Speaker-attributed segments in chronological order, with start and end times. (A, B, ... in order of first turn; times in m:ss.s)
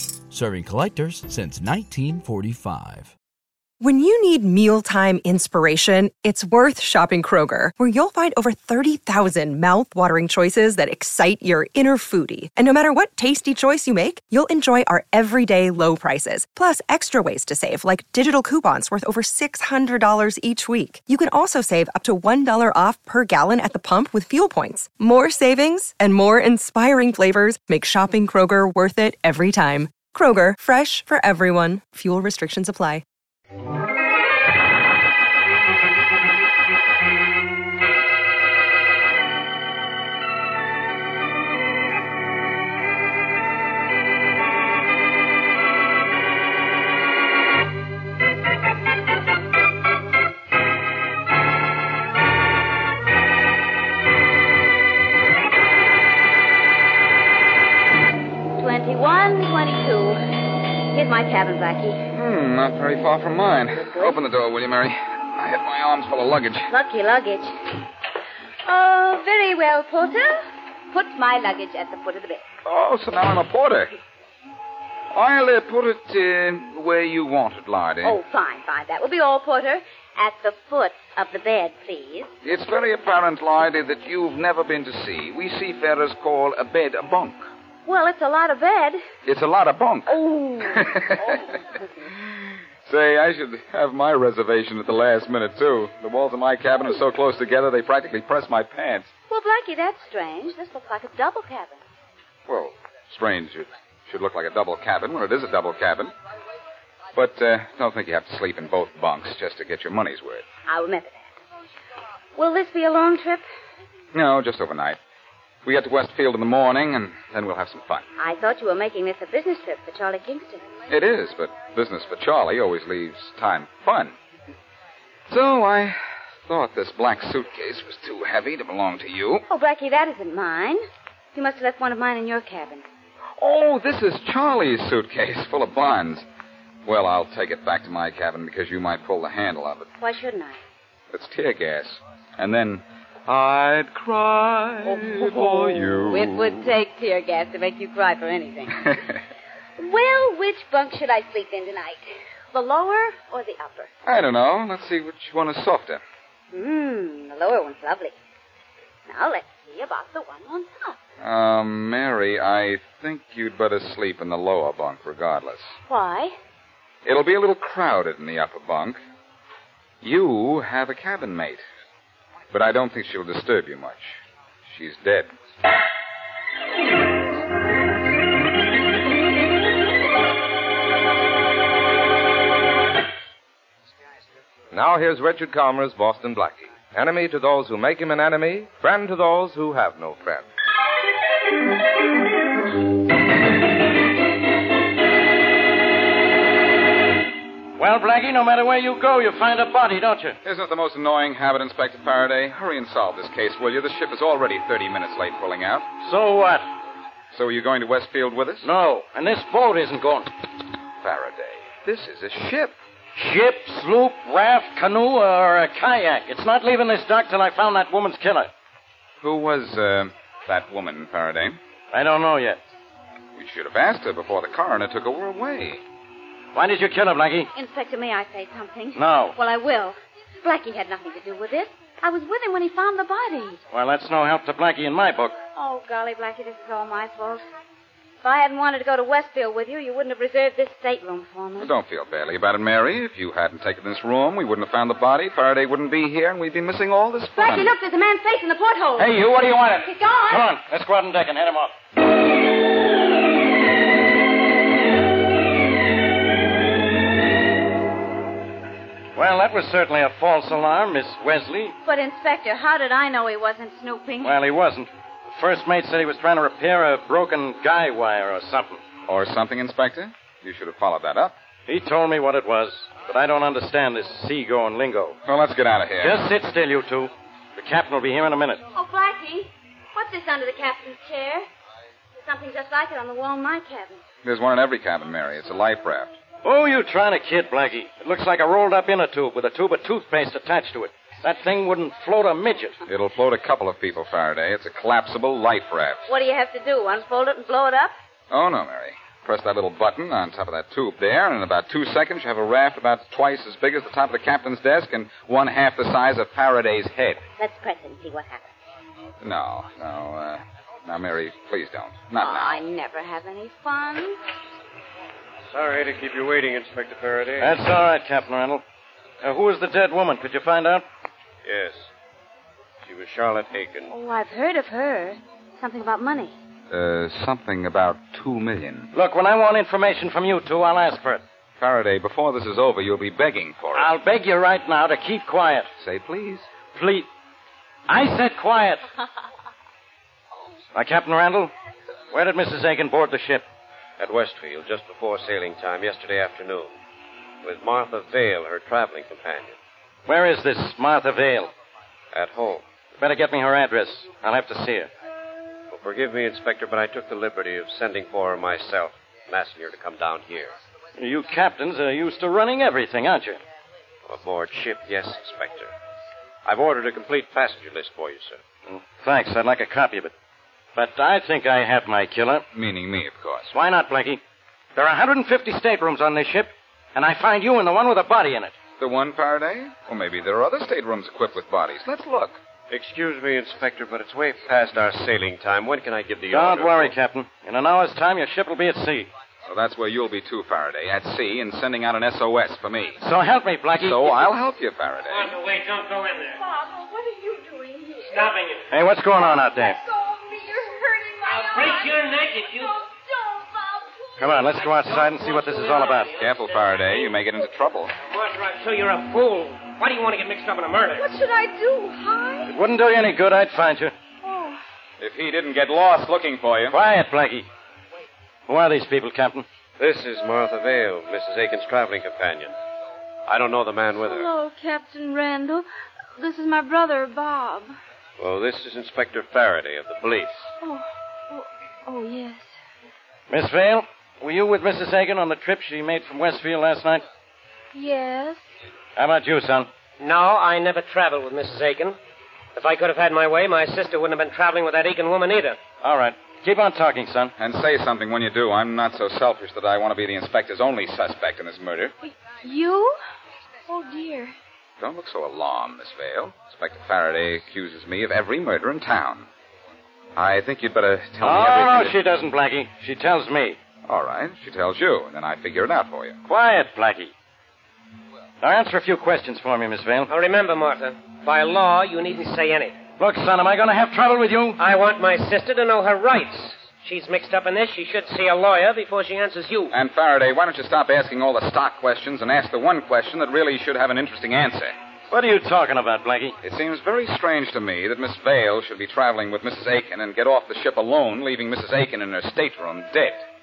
0:00.3-0:03.1 A
0:03.8-0:33.0 B
0:58.6-1:02.1 C
1:02.1-1:06.7 D
1:03.8-1:04.2 C
1:06.7-1:07.6 C
1:08.6-1:12.4 C
1:12.6-1:13.9 D
1:15.1-1:18.2 D
1:18.0-1:22.3 C
1:22.4-1:27.4 D
1:27.9-1:29.0 C
1:29.3-1:31.5 D
1:30.1-1:32.0 C
1:32.2-1:39.1 D
1:39.3-1:41.8 C
1:42.5-1:46.1 D
1:47.1-1:50.4 D
1:50.7-1:51.3 C
1:52.4-1:53.4 C
1:54.1-1:55.0 D
1:55.6-1:58.1 D
1:58.2-2:00.7 C
2:00.9-2:04.2 D
2:05.3-2:09.4 D
2:09.5-2:10.8 C
2:11.3-2:12.8 C
2:13.4-2:16.3 D
2:16.9-2:19.9 D
2:20.0-2:20.6 C
2:21.1-2:26.7 D
2:24.8-2:29.0 C
2:28.8-2:29.2 D
2:29.8-2:33.9 C
2:34.0-2:36.0 D
2:36.5-2:38.2 C
2:39.1-2:41.0 C
2:41.2-2:45.8 D
2:45.9-2:46.4 C
2:47.0-2:49.0 D
2:50.0-2:51.7 D
2:52.5-2:55.3 D
3:04.7-3:10.4 E
3:17.8-3:20.4 F
3:20.4-3:25.9 D
3:26.0-3:26.7 F
3:27.3-3:28.7 D
3:28.6-3:30.3 F
3:31.0-3:32.7 D
3:33.2-3:38.5 F
3:39.2-3:41.6 D
3:41.9-3:42.6 F
3:43.4-3:45.8 D
3:46.6-3:47.5 F
3:47.5-3:53.6 C
3:49.0-3:49.4 F
3:53.7-3:55.4 F
3:55.6-3:57.4 C
3:58.2-4:01.7 C
4:01.6-4:07.7 D
4:07.4-4:10.4 C
4:09.0-4:11.7 F
4:19.2-4:21.8 F
4:21.8-4:24.4 C
4:24.2-4:28.8 F
4:29.1-4:31.4 D
4:31.7-4:35.2 F
4:35.3-4:36.2 D
4:36.0-4:38.6 F
4:38.7-4:41.5 C
4:42.2-4:44.0 C
4:44.2-4:46.2 D
4:46.4-4:52.8 F
4:52.9-4:56.0 D
4:56.1-4:57.9 C
4:58.3-5:07.2 D
5:07.4-5:08.5 C
5:09.2-5:12.6 D
5:12.2-5:14.2 C
5:15.5-5:17.7 G
5:17.4-5:18.6 F
5:19.2-5:20.8 F
5:21.4-5:21.9 G
5:22.8-5:23.9 G
5:23.9-5:26.4 C
5:26.7-5:28.9 D
5:28.9-5:31.2 F
5:31.6-5:33.9 D
5:33.8-5:35.7 F
5:35.8-5:36.5 D
5:36.8-5:37.1 F
5:37.9-5:38.8 F
5:40.7-5:41.5 F
5:42.1-5:43.4 F
5:44.0-5:46.8 G
5:47.4-5:49.6 G
5:50.1-5:51.5 F
5:52.1-5:52.7 G
5:53.0-5:54.9 F
5:55.7-6:00.6 G
6:01.0-6:03.4 F
6:04.1-6:05.7 G
6:06.4-6:08.4 G
6:08.7-6:10.1 F
6:10.8-6:12.4 F
6:12.5-6:13.5 D
6:13.5-6:14.2 F
6:14.8-6:18.5 F
6:18.8-6:22.4 D
6:22.7-6:26.9 G
6:26.3-6:29.1 F
6:29.5-6:33.0 D
6:33.0-6:34.3 F
6:33.8-6:35.4 D
6:35.1-6:36.4 H
6:36.4-6:38.4 I
6:38.1-6:38.7 H
6:38.7-6:39.8 F
6:39.2-6:44.6 I
6:41.2-6:42.8 H
6:44.2-6:46.1 F
6:44.4-6:47.2 H
6:46.2-6:48.0 D
6:48.0-6:51.2 H
6:50.9-6:52.5 I
6:52.5-6:53.9 F
6:54.2-6:54.6 I
6:55.0-6:56.8 D
6:56.7-6:57.5 F
6:58.5-6:59.4 F
6:59.8-7:02.6 G
7:03.3-7:04.3 G
7:04.0-7:07.8 I
7:08.2-7:10.5 G
7:10.6-7:12.5 I
7:13.3-7:17.0 F
7:17.7-7:18.4 I
7:19.0-7:19.7 F
7:20.0-7:22.0 H
7:22.6-7:25.6 H
7:25.8-7:27.3 F
7:27.4-7:31.9 D
7:32.0-7:33.0 I
7:33.7-7:34.4 I
7:34.8-7:39.3 D
7:40.2-7:42.0 D
7:41.2-7:43.6 F
7:43.8-7:46.2 D
7:46.3-7:47.1 F
7:48.4-7:50.1 F
7:50.1-7:52.8 H
7:53.0-7:54.6 F
7:54.6-7:59.7 H
7:59.7-8:04.8 D
8:05.1-8:06.4 F
8:06.4-8:13.2 D